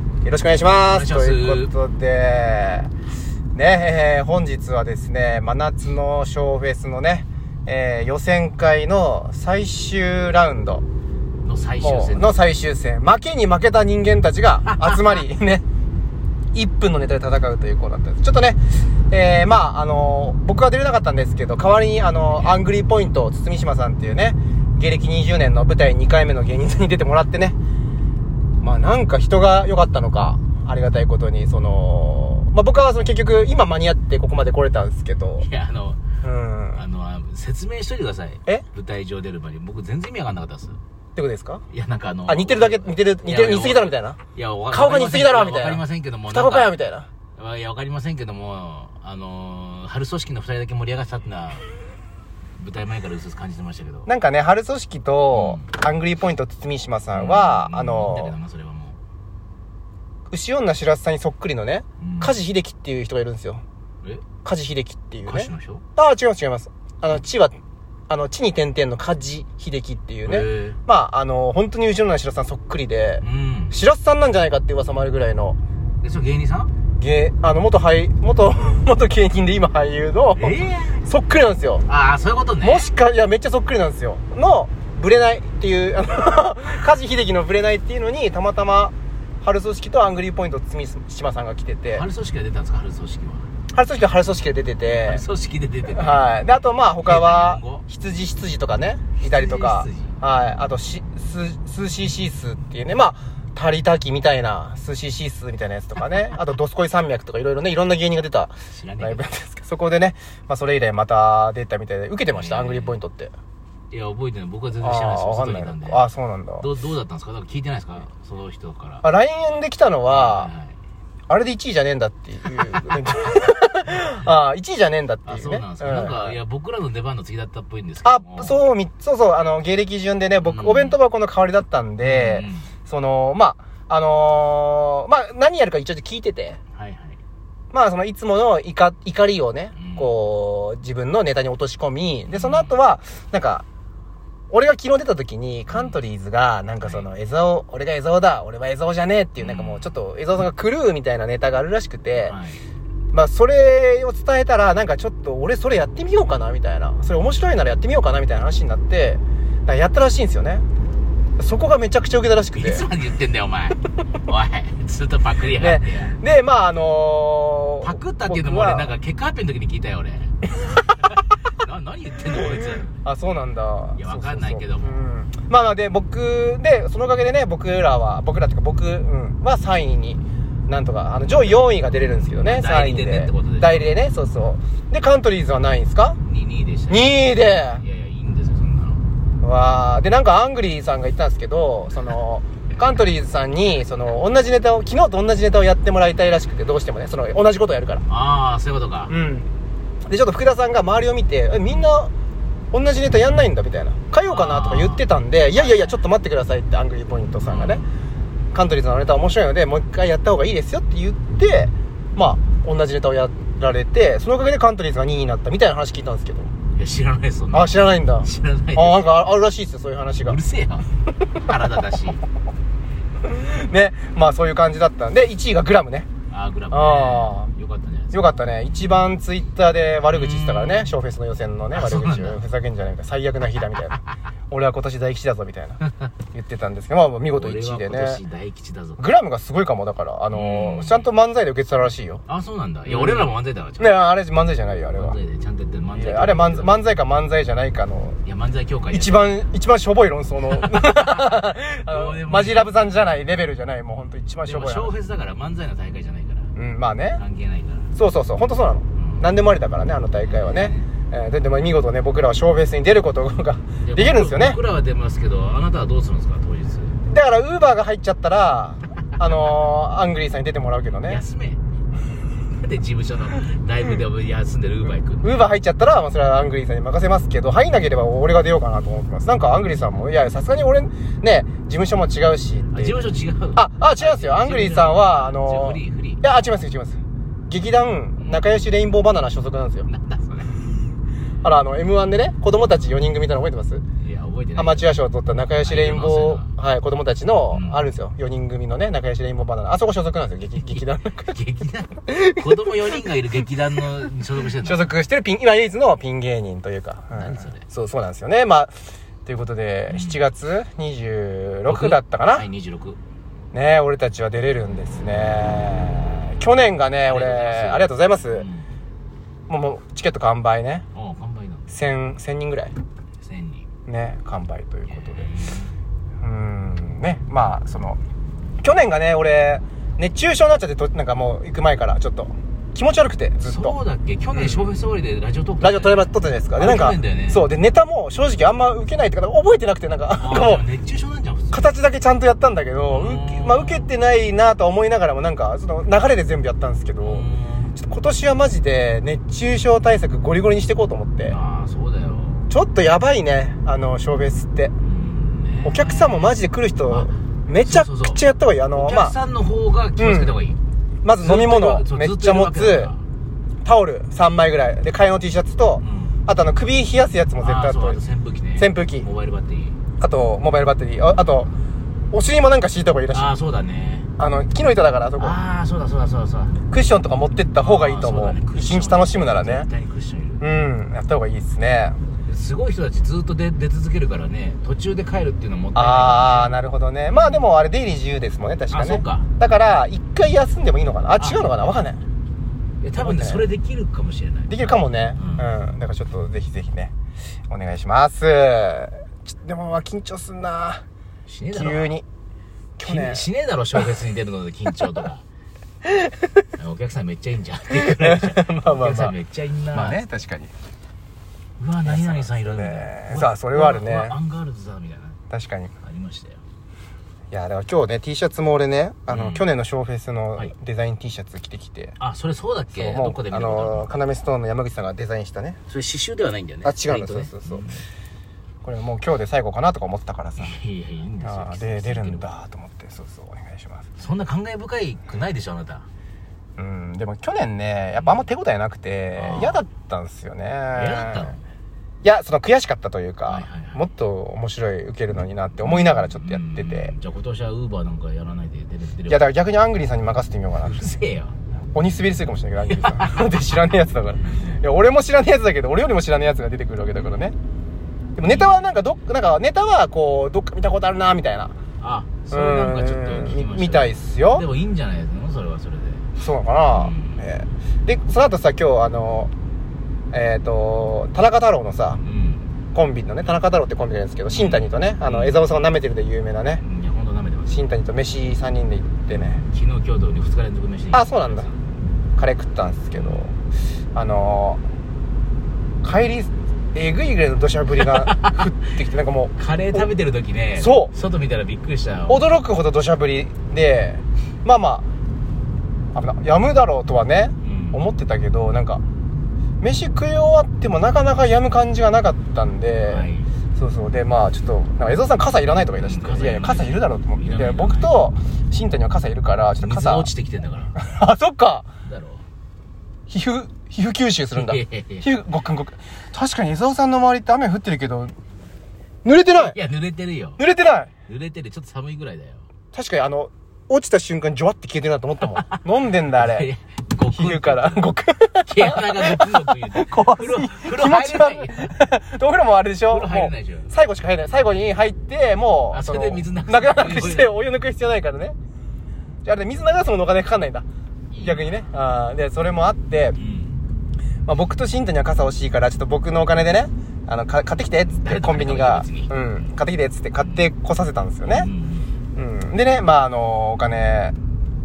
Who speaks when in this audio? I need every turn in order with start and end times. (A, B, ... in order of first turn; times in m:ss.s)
0:00.2-0:02.9 A
0:00.9-0:01.7 B
0:03.5-0:10.8 A
0:11.4-0:12.4 B
0:11.8-0:15.6 A
0:14.8-0:15.2 B
0:16.5-0:27.5 A
0:28.6-0:35.5 A
0:35.4-0:36.0 B
0:36.2-0:36.8 A
0:36.7-0:40.8 B
0:41.2-0:41.6 A
0:41.7-0:46.7 B
0:42.3-0:44.2 A
0:44.7-0:47.1 A
0:47.4-0:51.7 B
0:52.6-0:54.1 B
0:54.1-0:58.3 A
0:55.3-0:55.7 B
0:57.1-0:59.0 B
1:00.3-1:03.6 A
1:02.0-1:02.4 B
1:04.4-1:07.6 A
1:05.2-1:05.8 B
1:08.1-1:15.6 A
1:10.2-1:10.8 B
1:13.2-1:13.8 B
1:16.0-1:16.7 B
1:17.0-1:21.8 A
1:20.4-1:21.0 B
1:21.8-1:22.8 B
1:22.6-1:32.0 A
1:31.9-1:33.5 B
1:33.7-1:35.2 A
1:35.0-1:36.2 B
1:35.9-1:53.3 A
1:37.0-1:37.8 B
1:39.2-1:40.2 B
1:48.7-1:49.3 B
1:52.3-1:53.0 B
1:53.9-1:56.0 B
1:54.8-1:56.7 A
1:56.6-1:59.0 B
1:59.0-2:00.5 A
2:00.0-2:00.8 B
2:01.3-2:06.4 A
2:04.0-2:04.2 B
2:05.2-2:08.6 B
2:08.0-2:16.6 A
2:10.4-2:11.0 B
2:12.0-2:12.7 B
2:16.7-2:17.2 B
2:17.7-2:23.6 A
2:19.7-2:20.1 B
2:22.3-2:22.8 B
2:24.5-2:32.4 A
2:25.7-2:26.0 B
2:26.8-2:27.1 B
2:29.4-2:29.9 B
2:32.2-2:32.6 B
2:33.1-2:40.6 A
2:41.4-2:42.9 A
2:42.5-2:46.2 B
2:45.5-2:48.9 A
2:47.8-2:50.4 B
2:50.9-2:53.0 B
2:52.4-3:06.2 A
2:54.0-2:55.0 B
3:01.9-3:03.9 B
3:06.2-3:09.1 B
3:06.9-3:07.8 A
3:09.4-3:18.0 A
3:18.1-3:19.1 B
3:19.1-3:19.5 A
3:20.0-3:22.1 A
3:22.7-3:27.8 A
3:24.3-3:26.0 B
3:27.4-3:27.9 B
3:28.5-3:36.5 A
3:36.7-3:39.3 B
3:37.5-3:40.4 A
3:40.2-3:42.2 B
3:43.2-3:46.1 A
3:46.3-3:49.0 B
3:46.7-3:47.5 A
3:48.1-3:55.8 A
3:50.1-3:51.0 B
3:51.7-3:52.4 B
3:56.3-3:58.2 A
3:57.3-3:59.0 B
3:59.0-4:02.2 A
4:00.3-4:01.1 B
4:02.3-4:04.0 B
4:02.9-4:05.2 A
4:04.9-4:06.8 B
4:05.9-4:08.2 A
4:08.2-4:09.3 B
4:08.9-4:14.9 A
4:10.5-4:12.9 B
4:14.4-4:16.5 B
4:16.5-4:17.2 A
4:17.2-4:17.9 B
4:17.9-4:24.6 A
4:18.9-4:19.3 B
4:20.2-4:20.9 B
4:23.8-4:27.0 B
4:27.0-4:31.2 A
4:31.0-4:31.6 B
4:32.5-4:35.4 B
4:35.2-4:47.0 A
4:42.7-4:46.2 B
4:47.5-4:49.9 A
4:48.2-4:48.4 B
4:49.8-4:50.6 B
4:51.4-4:53.8 A
4:54.0-4:55.0 B
4:54.6-5:01.3 A
4:55.6-4:56.5 B
4:57.5-4:57.8 B
5:00.6-5:04.9 B
5:02.1-5:02.5 A
5:04.6-5:12.4 A
5:07.1-5:07.6 B
5:09.9-5:10.2 B
5:11.7-5:13.0 B
5:13.5-5:18.5 A
5:17.0-5:18.7 B
5:19.5-5:20.8 A
5:20.9-5:21.7 B
5:21.7-5:22.8 A
5:23.2-5:23.7 B
5:23.9-5:25.3 A
5:24.9-5:25.7 B
5:26.2-5:28.0 A
5:28.6-5:33.8 A
5:33.4-5:37.5 B
5:34.3-5:34.7 A
5:35.6-5:40.6 A
5:40.2-5:41.7 B
5:41.5-5:47.2 A
5:42.8-5:43.9 B
5:47.0-5:47.8 B
5:47.8-5:51.4 A
5:51.3-5:52.5 B
5:52.5-5:54.7 A
5:54.8-5:56.4 B
5:55.6-5:59.1 A
5:56.9-6:00.6 B
6:00.0-6:00.4 A
6:01.0-6:02.9 A
6:01.2-6:03.0 B
6:03.6-6:08.0 A
6:05.8-6:06.2 B
6:07.4-6:09.8 B
6:08.6-6:09.1 A
6:10.0-6:11.5 A
6:12.1-6:13.3 A
6:13.1-6:14.1 B
6:14.2-6:15.4 A
6:15.2-6:16.6 B
6:16.7-6:19.7 A
6:17.6-6:20.4 B
6:20.4-6:22.0 A
6:22.3-6:26.5 B
6:25.7-6:32.0 A
6:27.1-6:27.5 B
6:28.7-6:29.3 B
6:31.2-6:31.5 B
6:32.8-6:35.5 B
6:33.0-6:33.5 A
6:34.5-6:36.9 A
6:37.5-6:40.8 A
6:41.2-6:41.9 B
6:41.5-6:42.0 A
6:42.8-6:43.3 A
6:42.8-6:45.2 B
6:46.6-6:50.0 B
6:47.7-6:49.1 A
6:49.7-6:50.5 A
6:51.6-6:55.2 B
6:51.8-6:54.2 A
6:55.3-6:55.7 A
6:55.8-6:56.4 B
6:57.3-7:02.0 A
6:59.1-6:59.5 B
7:02.0-7:03.9 B
7:02.8-7:05.6 A
7:05.7-7:07.8 B
7:06.6-7:07.7 A
7:08.6-7:10.6 A
7:10.4-7:12.2 B
7:11.2-7:13.9 A
7:14.0-7:15.9 B
7:16.6-7:21.4 A
7:17.9-7:18.2 B
7:19.1-7:19.6 B
7:20.7-7:21.4 B
7:22.0-7:26.9 A
7:23.3-7:23.8 B
7:25.6-7:29.3 B
7:29.1-7:30.8 A
7:30.6-7:31.3 B
7:31.7-7:37.3 A
7:32.7-7:33.3 B
7:38.2-7:41.5 A
7:38.2-7:38.8 B
7:41.8-7:46.1 B
7:42.3-7:44.4 A
7:46.2-7:49.3 A
7:46.7-7:47.3 B
7:50.1-7:52.0 A
7:52.0-7:52.5 B
7:52.7-7:56.6 A
7:54.3-7:55.4 B
7:56.6-7:57.6 B
7:57.5-7:59.4 A
7:59.1-8:01.6 B
8:00.9-8:01.5 A
8:02.2-8:03.3 A
8:02.9-8:03.3 B
8:03.9-8:04.6 A
8:05.8-8:09.9 A
8:07.8-8:08.4 B
8:09.4-8:12.2 B
8:10.6-8:10.9 A
8:12.1-8:14.8 A
8:15.9-8:18.8 A
8:17.4-8:17.8 B
8:19.6-8:30.1 A
8:22.8-8:23.3 B
8:25.8-8:28.0 B
8:29.6-8:30.8 B
8:30.8-8:31.7 A
8:31.8-8:32.2 B
8:33.1-8:38.1 A
8:34.3-8:35.1 B
8:39.0-8:39.6 A
8:39.4-8:40.4 B
8:40.4-8:40.9 A
8:41.1-8:42.4 B
8:42.7-8:46.5 A
8:45.2-8:47.9 B
8:47.1-8:58.3 A
8:48.4-8:51.8 B
8:52.9-8:53.7 B
8:55.7-8:57.3 B
8:59.2-9:00.6 A
9:01.1-9:01.8 B
9:01.2-9:03.2 A
9:03.1-9:03.6 B
9:04.3-9:11.5 A
9:07.9-9:09.5 B
9:10.2-9:10.5 B
9:11.2-9:12.0 B
9:12.1-9:14.1 A